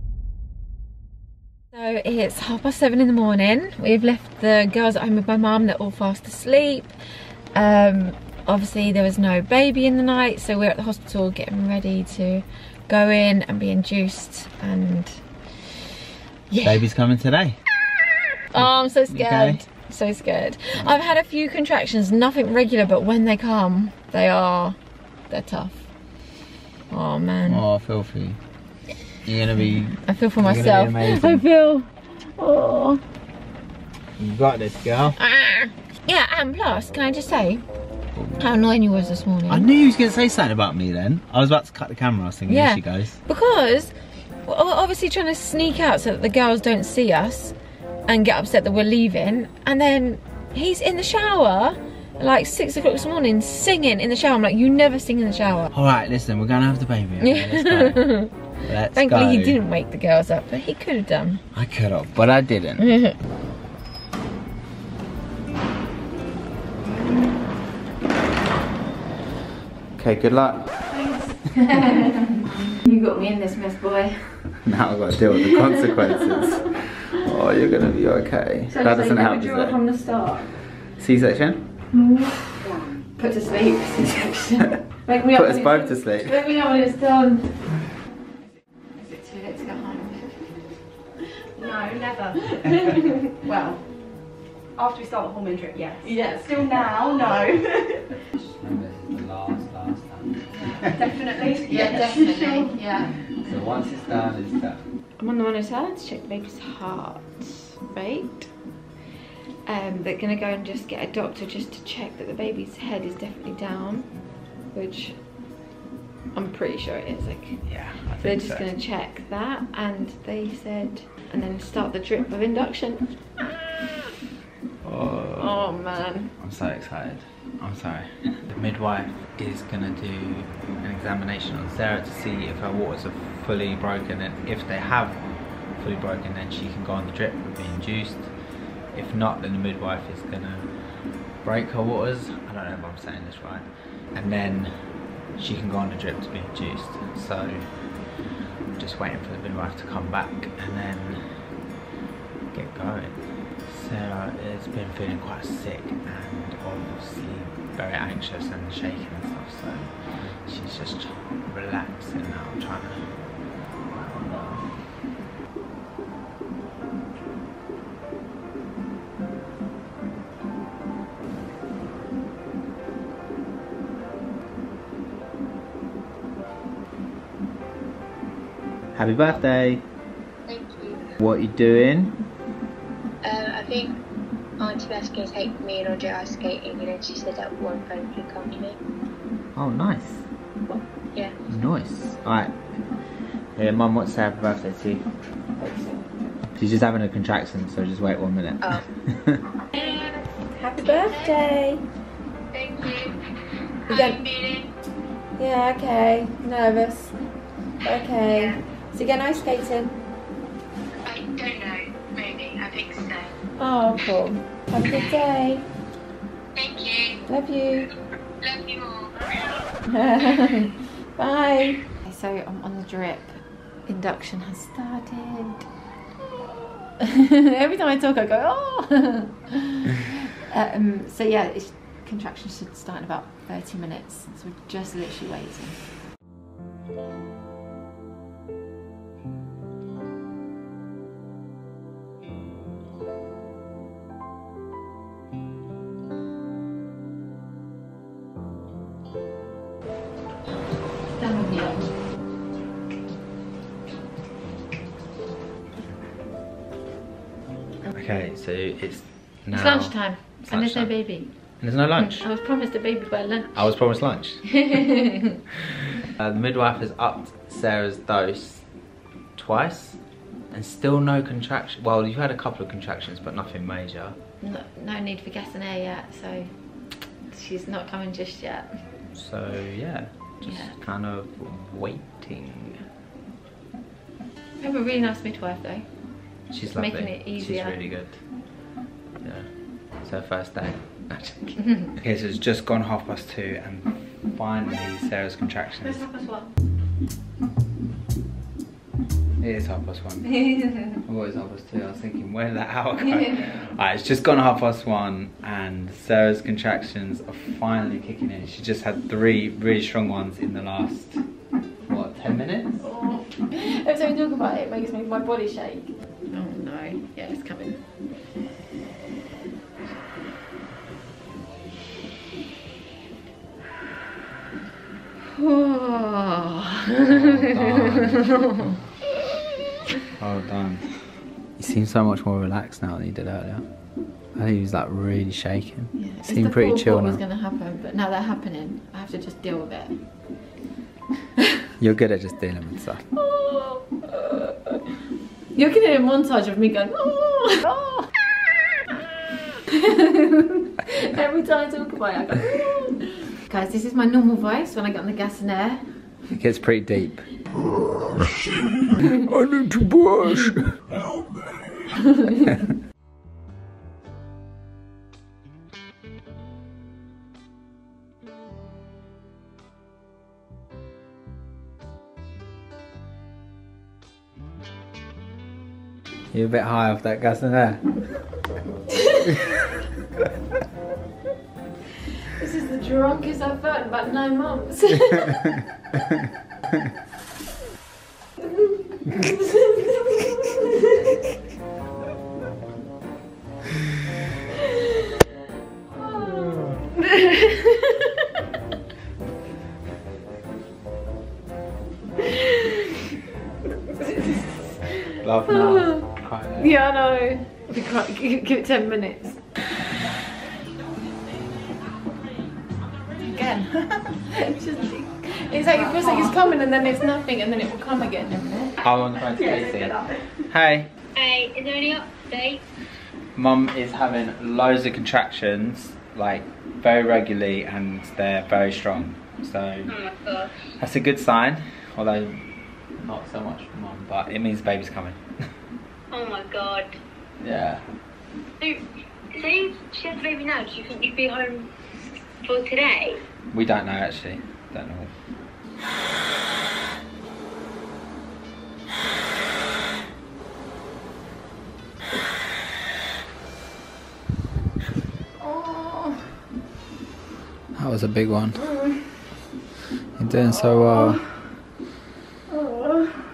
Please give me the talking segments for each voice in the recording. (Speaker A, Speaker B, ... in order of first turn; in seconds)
Speaker A: 1.7-7.0, 7.5-15.3, 16.5-16.9, 18.5-24.8, 25.3-25.9, 26.9-27.6, 30.0-33.0, 35.1-37.6, 38.4-39.7, 42.5-47.5, 48.1-55.7, 57.2-58.4, 58.9-61.4, 62.8-63.1, 70.9-74.6, 75.6-75.9, 78.7-80.6, 81.9-87.7, 89.0-90.5, 92.8-93.1, 96.0-96.6, 100.5-103.5, 105.2-108.5, 109.7-114.2, 114.7-115.2, 116.3-123.1, 125.4-126.3, 195.6-196.1, 199.7-201.8, 203.9-204.2, 205.4-207.2, 207.8-209.9, 213.6-215.7, 217.3-217.9, 219.9-225.7, 227.0-235.8, 251.1-251.9, 259.5-263.8, 264.5-265.1, 274.4-276.5, 277.3-278.8, 280.4-280.8, 284.6-285.9, 286.6-287.8, 295.8-296.5, 303.0-303.3, 312.8-315.3, 316.3-317.8, 325.3-328.8, 335.9-340.0, 343.1-344.6, 345.5-348.1, 349.7-356.1, 382.4-385.5, 389.0-390.9, 396.0-398.1, 402.4-402.7, 404.0-409.4, 413.3-418.8, 455.4-456.2, 458.6-458.9, 460.4-461.2, 462.5-463.0
Speaker B: 16.6-17.6, 18.6-19.6, 27.5-28.4, 29.2-31.4, 34.2-35.2, 38.1-38.5, 39.5-43.2, 55.7-59.6, 61.5-62.9, 70.0-70.9, 74.6-79.8, 80.9-81.6, 85.2-86.4, 98.1-100.9, 103.4-104.8, 117.6-118.7, 124.8-125.5, 126.4-135.2, 135.8-138.3, 138.9-140.9, 141.4-144.7, 145.4-147.9, 148.8-151.4, 152.5-163.2, 163.9-164.8, 178.9-179.8, 181.2-182.2, 189.6-190.3, 191.5-192.5, 193.6-195.1, 196.6-199.4, 257.9-262.3, 263.5-264.7, 266.2-268.7, 269.4-270.0, 270.5-274.2, 279.1-282.8, 286.5-288.2, 289.2-289.5, 290.0-296.0, 299.4-311.2, 311.9-312.8, 327.0-328.3, 330.2-333.6, 334.4-337.2, 341.8-343.1, 356.3-357.3, 359.1-360.9, 376.3-378.0, 396.0-396.8, 405.2-406.8, 418.8-420.9, 423.4-429.9, 430.8-432.4, 433.0-435.2, 437.4-437.8, 443.5-445.1, 457.8-458.6, 460.2-461.2
Speaker C: 91.6-93.8, 94.8-98.1, 100.9-102.8, 312.9-315.9, 415.8-416.3, 419.3-420.4
Speaker D: 180.5-181.1, 183.2-184.0, 184.6-188.8, 199.7-200.3, 200.8-201.4, 202.5-203.1, 203.9-204.7, 208.3-208.6, 211.1-213.3, 216.6-217.2, 218.4-219.5, 421.2-422.6, 429.9-430.5, 436.1-436.9, 439.3-441.7, 442.4-443.2